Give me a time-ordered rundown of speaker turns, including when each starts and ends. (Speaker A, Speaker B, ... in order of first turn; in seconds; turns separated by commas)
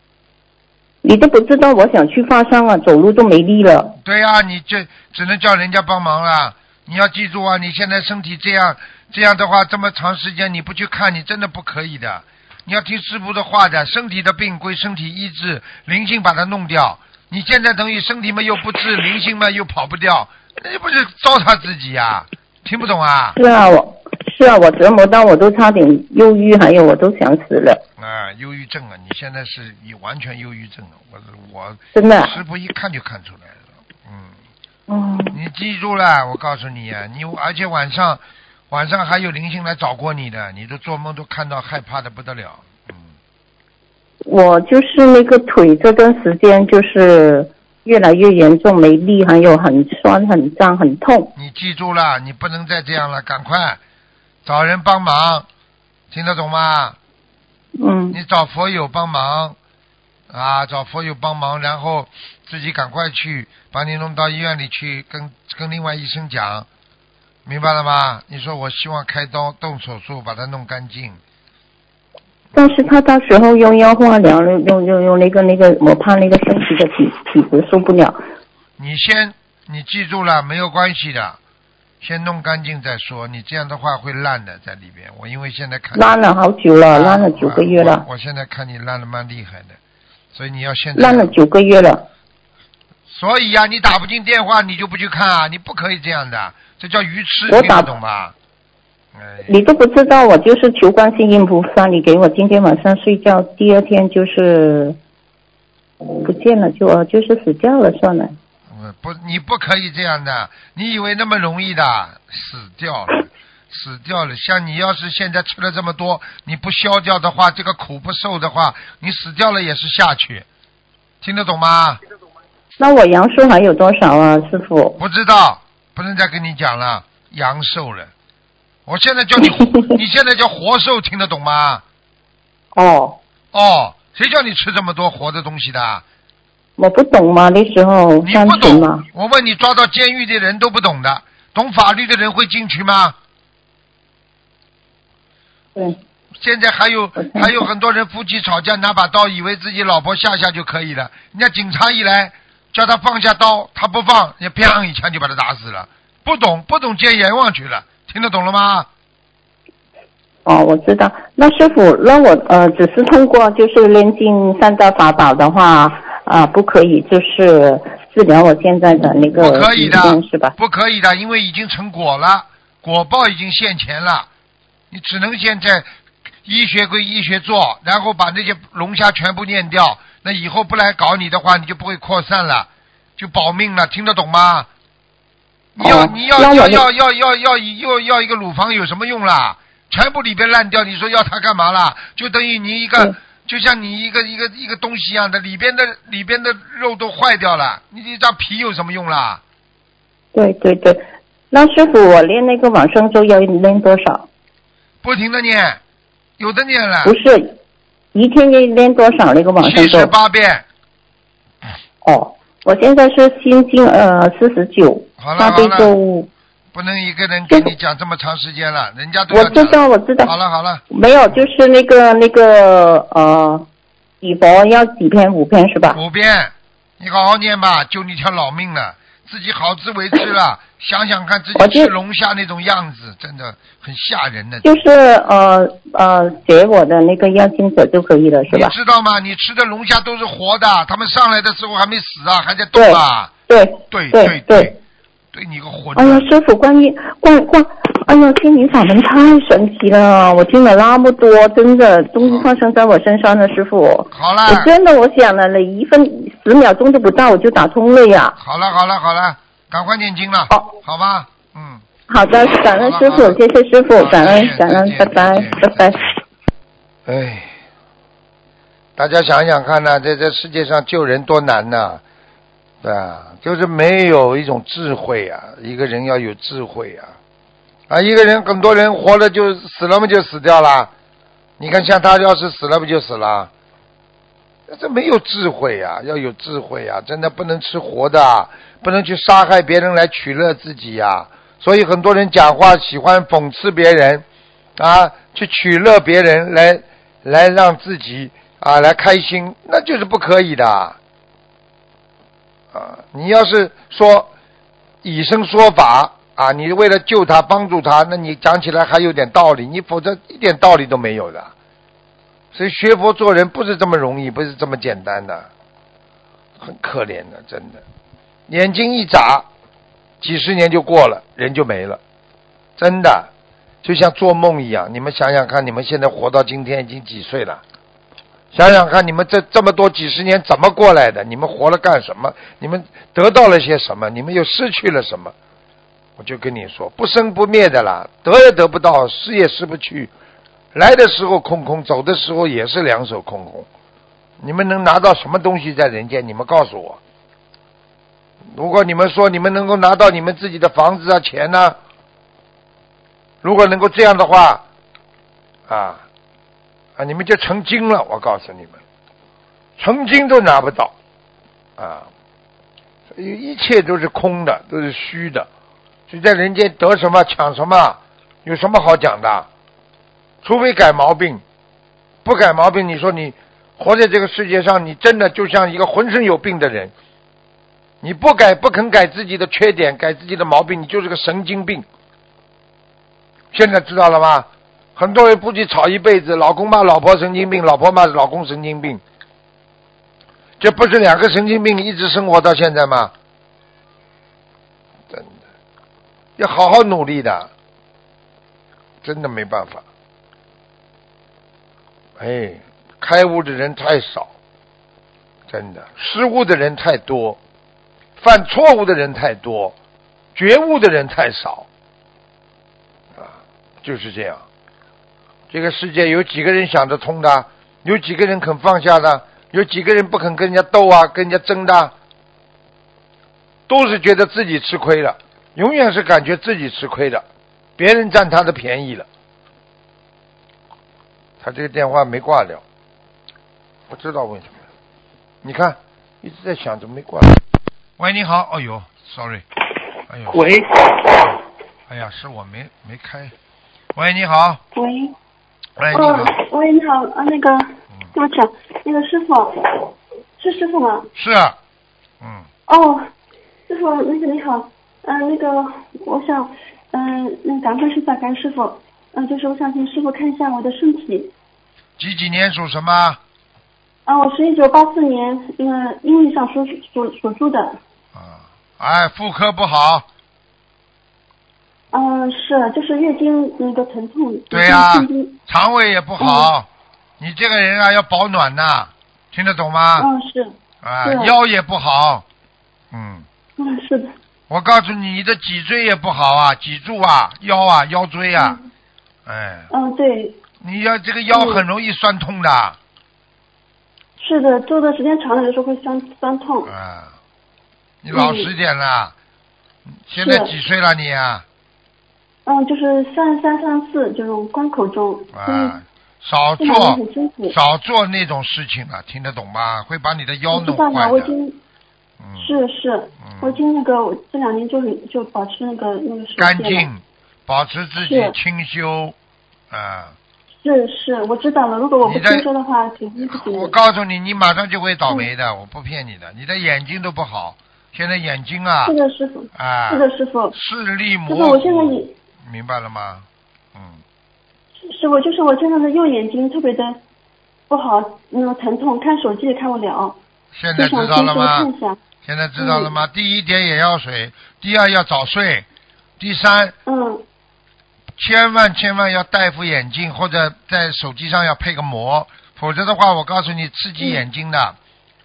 Speaker A: 1.0-4.0, Speaker B: 4.0-23.4, Speaker A: 23.4-27.8, Speaker B: 28.0-34.4, Speaker A: 31.9-32.4, Speaker A: 34.9-35.4, Speaker B: 35.3-43.1, Speaker A: 44.2-51.3, Speaker B: 51.4-53.8, Speaker B: 54.5-55.5, Speaker B: 56.1-57.0, Speaker A: 57.8-58.2, Speaker B: 58.1-59.6, Speaker B: 60.3-66.7, Speaker B: 67.5-71.2, Speaker A: 72.5-78.2, Speaker B: 78.8-81.4, Speaker B: 82.0-86.2, Speaker A: 86.0-88.0, Speaker B: 86.9-89.8, Speaker B: 90.3-91.3, Speaker A: 91.0-92.0, Speaker B: 93.1-98.3, Speaker A: 97.5-97.9, Speaker B: 99.2-99.5, Speaker A: 99.5-105.0, Speaker A: 106.2-108.4, Speaker B: 108.7-120.5, Speaker B: 121.2-122.0, Speaker A: 122.8-125.0, Speaker B: 125.0-128.1, Speaker B: 128.9-131.8, Speaker A: 129.6-130.0, Speaker A: 132.8-133.2, Speaker B: 133.5-136.0, Speaker A: 136.8-139.1, Speaker B: 138.2-143.2, Speaker B: 146.4-158.9, Speaker A: 147.2-147.6, Speaker A: 160.5-170.6, Speaker B: 169.4-174.3, Speaker B: 174.9-175.9, Speaker B: 176.4-184.7, Speaker B: 185.8-199.4, Speaker A: 185.8-186.8, Speaker A: 200.3-204.3, Speaker B: 205.0-205.8, Speaker B: 206.4-207.2, Speaker A: 207.0-207.6, Speaker A: 208.1-210.1, Speaker B: 209.6-210.7, Speaker A: 212.0-216.3, Speaker B: 215.2-215.9, Speaker B: 216.7-221.5, Speaker A: 219.3-220.3, Speaker A: 220.9-223.7, Speaker A: 224.2-226.0, Speaker B: 225.9-234.8, Speaker A: 231.6-231.9, Speaker A: 234.6-238.7, Speaker B: 238.5-243.3, Speaker A: 242.7-244.8, Speaker B: 243.9-244.8, Speaker B: 245.3-246.3, Speaker A: 245.9-258.4, Speaker B: 254.1-254.7, Speaker B: 258.4-261.9, Speaker A: 262.1-266.0, Speaker B: 262.6-263.4, Speaker B: 264.0-266.1, Speaker B: 267.1-267.6, Speaker B: 269.0-272.0, Speaker B: 272.8-277.1, Speaker B: 277.9-280.9, Speaker B: 281.6-283.5, Speaker B: 284.7-294.2, Speaker B: 294.8-301.0, Speaker B: 302.7-304.3, Speaker B: 305.0-311.5, Speaker B: 312.5-315.5, Speaker B: 316.6-317.8, Speaker B: 318.5-319.5, Speaker B: 320.2-322.0, Speaker B: 322.8-323.3, Speaker B: 323.8-327.6, Speaker B: 328.5-335.3, Speaker B: 336.2-340.1, Speaker B: 340.7-343.7, Speaker B: 344.4-347.0, Speaker B: 348.5-351.8, Speaker B: 353.4-354.6, Speaker B: 355.7-356.0, Speaker B: 357.0-358.8, Speaker B: 359.8-360.9, Speaker B: 361.8-362.1, Speaker B: 363.1-365.5, Speaker B: 366.1-369.5, Speaker B: 370.4-371.4, Speaker B: 372.2-376.9, Speaker B: 378.0-381.9, Speaker B: 383.5-389.0, Speaker B: 390.6-393.1, Speaker B: 395.1-395.4, Speaker B: 396.4-397.5, Speaker B: 399.0-399.8, Speaker B: 402.2-404.3, Speaker B: 405.5-407.4, Speaker B: 408.2-409.8, Speaker B: 410.3-411.7, Speaker B: 413.1-414.4, Speaker B: 415.5-421.9, Speaker B: 423.7-427.2, Speaker B: 427.8-429.1, Speaker B: 431.4-432.6, Speaker B: 433.9-434.6, Speaker B: 435.4-437.4, Speaker B: 438.0-439.4, Speaker B: 440.1-443.3, Speaker B: 443.9-444.6, Speaker C: 444.8-445.2, Speaker B: 445.8-446.3, Speaker C: 445.9-451.1, Speaker B: 451.1-451.6, Speaker B: 452.2-452.5, Speaker C: 452.7-453.1, Speaker C: 453.7-461.3, Speaker B: 462.0-463.2, Speaker C: 464.1-467.8, Speaker B: 468.1-470.1, Speaker C: 471.9-475.4, Speaker B: 474.5-476.7, Speaker C: 476.2-476.5, Speaker B: 477.2-480.1, Speaker C: 480.0-481.3, Speaker B: 480.8-482.2, Speaker B: 482.9-483.3, Speaker C: 483.6-484.1, Speaker B: 484.5-488.6, Speaker C: 488.4-488.6, Speaker B: 489.3-489.7, Speaker C: 489.7-490.4, Speaker B: 490.6-492.8, Speaker C: 491.3-491.6, Speaker C: 494.2-496.7, Speaker B: 496.7-497.2, Speaker B: 498.0-499.1, Speaker C: 498.1-498.5, Speaker B: 499.9-501.4, Speaker C: 500.1-500.5, Speaker C: 502.5-505.8, Speaker B: 505.3-511.3, Speaker C: 506.6-507.6, Speaker C: 510.5-511.6, Speaker B: 512.2-512.6, Speaker C: 512.4-516.9, Speaker B: 513.2-513.6, Speaker B: 516.4-519.2, Speaker C: 518.0-518.4, Speaker B: 519.7-520.2, Speaker C: 520.6-523.7, Speaker B: 522.0-522.5, Speaker B: 523.3-529.0, Speaker C: 528.9-530.5, Speaker B: 529.5-534.0, Speaker C: 531.3-532.1, Speaker C: 534.8-537.0, Speaker C: 537.7-540.2, Speaker B: 540.5-541.7, Speaker C: 540.8-542.0, Speaker B: 542.2-545.7, Speaker C: 542.6-542.9, Speaker B: 546.2-546.8, Speaker C: 546.9-547.2, Speaker B: 548.2-554.8